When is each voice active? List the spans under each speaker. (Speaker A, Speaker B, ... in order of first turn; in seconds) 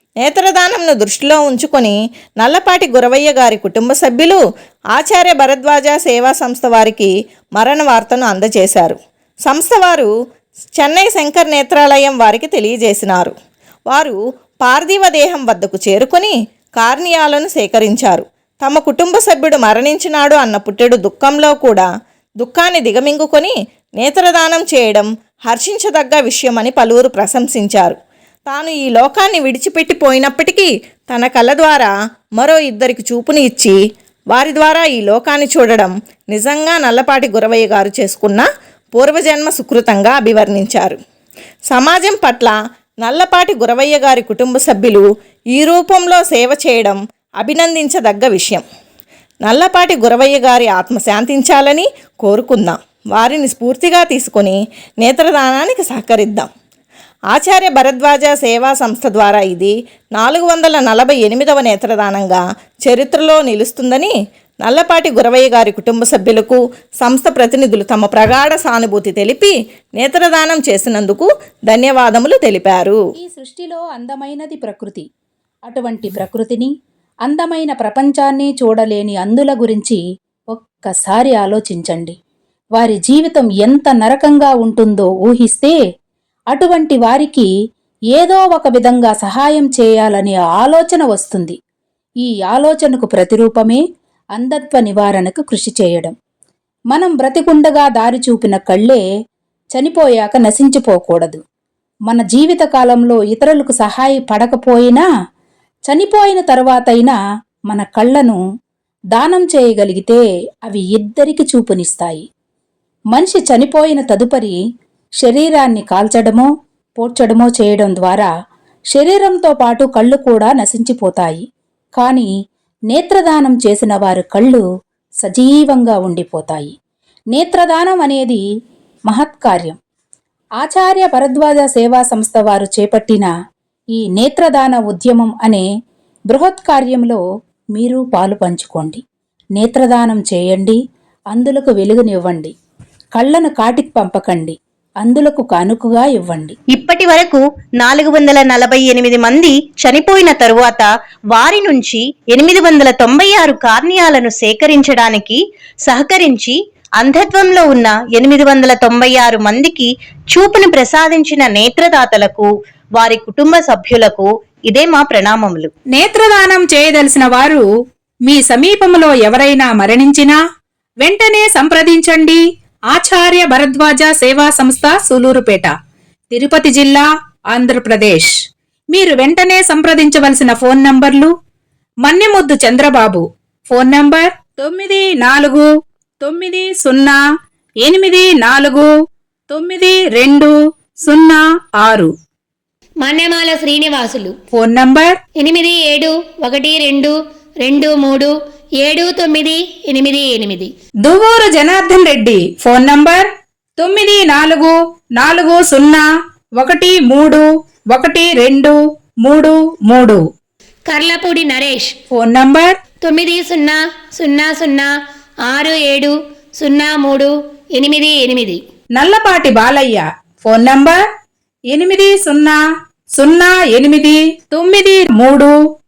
Speaker A: 0.2-4.4, 4.9-10.1, 10.8-13.3, 13.9-21.9, 22.4-33.8, 34.3-41.0, 41.7-48.6, 49.4-56.5, 57.3-73.0
Speaker B: 73.2-75.0, 75.7-76.7, 77.3-80.0, 80.5-82.2, 82.8-85.8, 86.5-87.5, 88.1-91.6, 92.2-93.8, 94.4-96.1, 96.9-99.0, 99.8-101.4, 102.1-105.0, 105.9-107.2, 107.7-108.4, 109.1-112.2, 113.1-114.6, 115.2-118.3, 118.9-121.4, 122.0-122.3, 122.9-124.6, 125.2-126.7, 127.3-128.4, 129.1-129.8, 130.6-133.3, 134.0-135.7, 136.3-137.2, 137.8-139.0, 139.6-140.8, 141.3-142.5, 143.2-146.6, 165.9-167.7, 168.3-170.4, 171.0-172.4, 172.9-175.7, 176.3-178.3, 178.9-181.3, 182.1-185.7, 186.2-187.2, 187.8-188.9, 189.5-190.5, 191.1-192.1, 194.5-195.1, 201.1-203.3, 203.8-206.0, 206.6-210.2, 212.1-212.7, 219.0-220.9, 221.7-222.6, 223.2-225.5
Speaker C: 146.7-165.7
Speaker D: 193.0-194.3, 195.4-200.7, 210.9-211.9, 213.0-214.9, 215.5-218.6